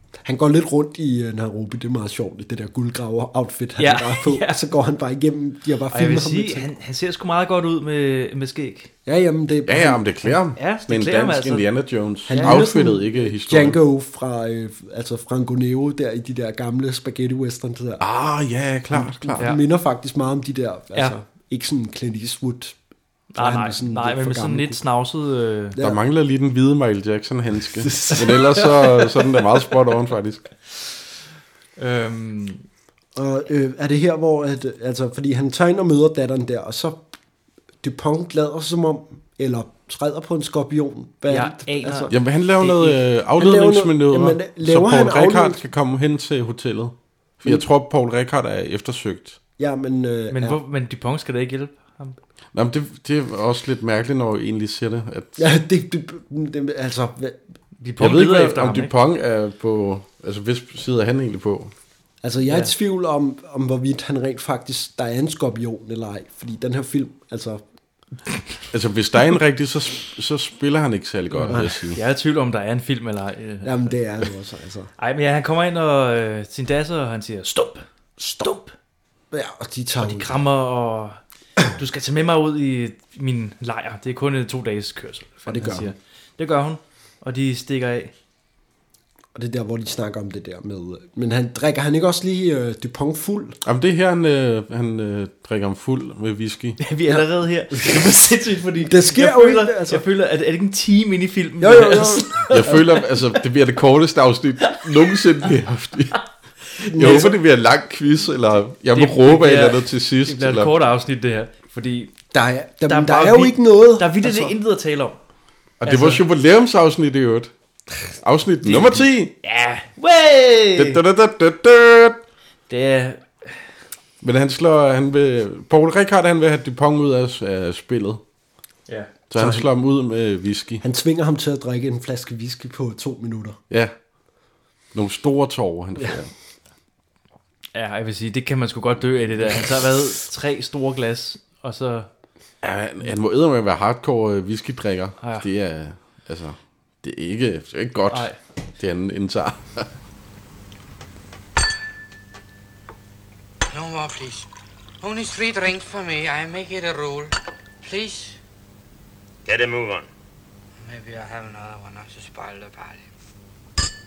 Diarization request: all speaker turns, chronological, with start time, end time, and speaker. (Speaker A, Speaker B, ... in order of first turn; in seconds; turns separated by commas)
Speaker A: 0.2-6.7, Speaker B: 3.8-4.6, Speaker B: 5.9-8.9, Speaker A: 9.1-10.0, Speaker C: 9.7-13.8, Speaker B: 10.5-11.7, Speaker A: 12.3-18.0, Speaker B: 12.3-12.6, Speaker C: 18.0-19.5, Speaker A: 18.9-22.8, Speaker B: 23.3-25.8, Speaker A: 23.4-24.8, Speaker C: 25.8-30.4, Speaker A: 27.8-28.3, Speaker B: 31.8-32.6, Speaker A: 33.1-37.0, Speaker A: 37.8-42.1, Speaker B: 41.3-43.0, Speaker C: 42.1-49.4, Speaker A: 43.4-45.6, Speaker A: 49.6-50.6, Speaker B: 50.3-52.2, Speaker C: 52.5-55.4, Speaker A: 55.4-57.4, Speaker B: 57.8-58.9, Speaker C: 58.0-61.7, Speaker A: 62.2-67.6, Speaker B: 62.5-62.7, Speaker C: 68.7-72.0, Speaker B: 71.3-74.0, Speaker A: 71.5-71.8, Speaker A: 73.6-74.9, Speaker B: 75.0-78.7, Speaker A: 79.3-80.3, Speaker B: 80.0-88.1, Speaker A: 85.5-85.9, Speaker A: 89.3-93.6, Speaker C: 93.7-96.8, Speaker B: 96.8-102.9, Speaker A: 98.8-100.0, Speaker A: 101.6-102.6, Speaker C: 102.5-106.2, Speaker B: 106.8-107.3, Speaker A: 106.9-107.4, Speaker C: 106.9-110.7, Speaker B: 108.9-112.1, Speaker A: 112.3-114.5, Speaker B: 112.9-115.2, Speaker C: 115.8-117.5, Speaker B: 115.8-116.2, Speaker C: 118.2-119.3, Speaker B: 118.6-121.0, Speaker C: 120.8-122.2, Speaker B: 122.7-123.5, Speaker C: 124.2-128.2, Speaker C: 129.3-130.8, Speaker A: 129.3-129.7, Speaker A: 130.8-133.6, Speaker C: 134.9-136.3, Speaker B: 137.7-142.1, Speaker C: 142.6-149.9, Speaker B: 145.2-145.5, Speaker B: 148.1-148.4, Speaker D: 153.7-154.5, Speaker D: 155.0-158.4, Speaker D: 159.5-160.1, Speaker D: 160.8-163.1